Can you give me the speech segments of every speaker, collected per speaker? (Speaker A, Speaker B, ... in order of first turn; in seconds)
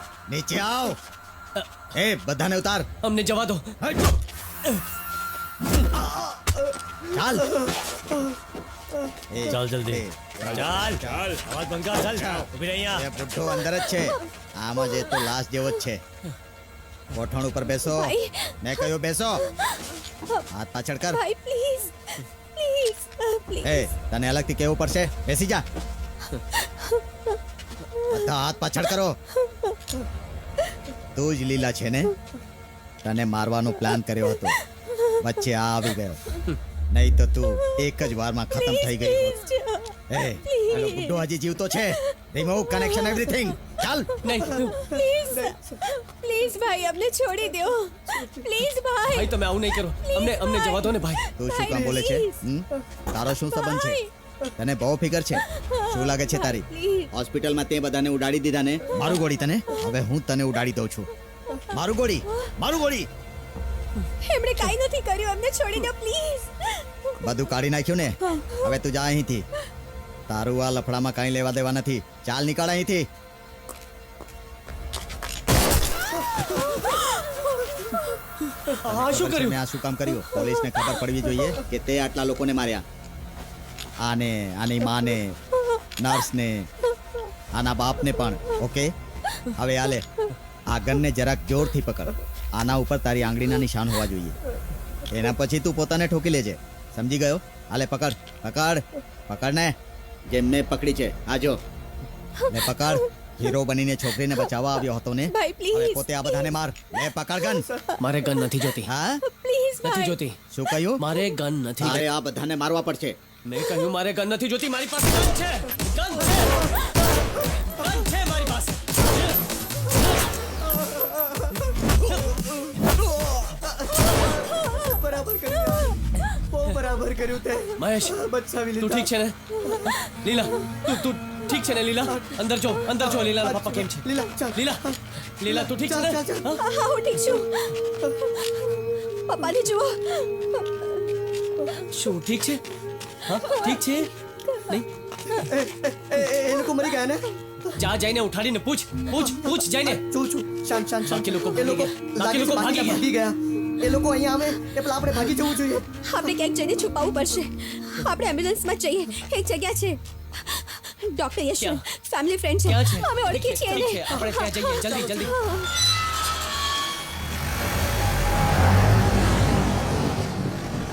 Speaker A: 0.3-1.0, 1.9-2.9, 3.8-4.1, 7.1-7.5, 9.3-11.4, 12.0-16.0, 17.1-19.4, 20.5-21.2, 23.6-25.6, 28.1-29.2, 31.1-32.1, 33.0-34.5, 35.2-36.2, 36.9-39.4, 40.1-44.1, 51.4-54.0, 54.6-61.1, 61.7-63.1, 67.2-69.5, 70.3-73.0, 78.8-82.8, 84.0-85.4, 86.0-86.7, 87.5-88.9, 89.5-90.1, 90.7-94.3, 95.1-99.7, 100.3-101.6, 102.5-107.7, 108.8-109.2, 110.5-111.0, 111.8-113.2
Speaker B: 3.0-3.7, 9.4-13.0, 44.2-44.8, 49.1-51.2, 78.7-79.6, 108.0-108.9, 109.8-110.4, 111.0-112.1, 113.4-117.1, 117.7-119.0, 122.0-122.4, 127.8-128.2, 128.8-129.4, 129.9-136.6, 141.9-142.6, 143.2-144.1, 147.7-150.0, 151.0-153.1, 161.6-161.8, 162.7-165.3
Speaker C: 7.5-8.3, 44.4-45.7, 48.1-48.5, 120.7-121.5, 122.3-122.5, 123.6-129.1, 132.1-136.5, 145.3-147.7, 149.1-155.8, 163.8-164.3
Speaker D: 13.4-14.2, 14.8-15.3, 17.8-18.9, 19.4-20.5, 21.1-23.9, 26.6-27.0, 33.9-35.1, 37.6-37.9, 38.5-41.3, 41.9-42.1, 42.7-43.6, 44.1-52.4, 53.5-54.1, 55.4-57.1, 58.9-59.9, 64.2-66.9, 68.3-68.7, 102.4-103.5, 105.3-106.5, 109.2-110.2, 129.6-130.1, 136.6-141.0, 143.3-143.9, 144.4-144.8, 156.0-165.7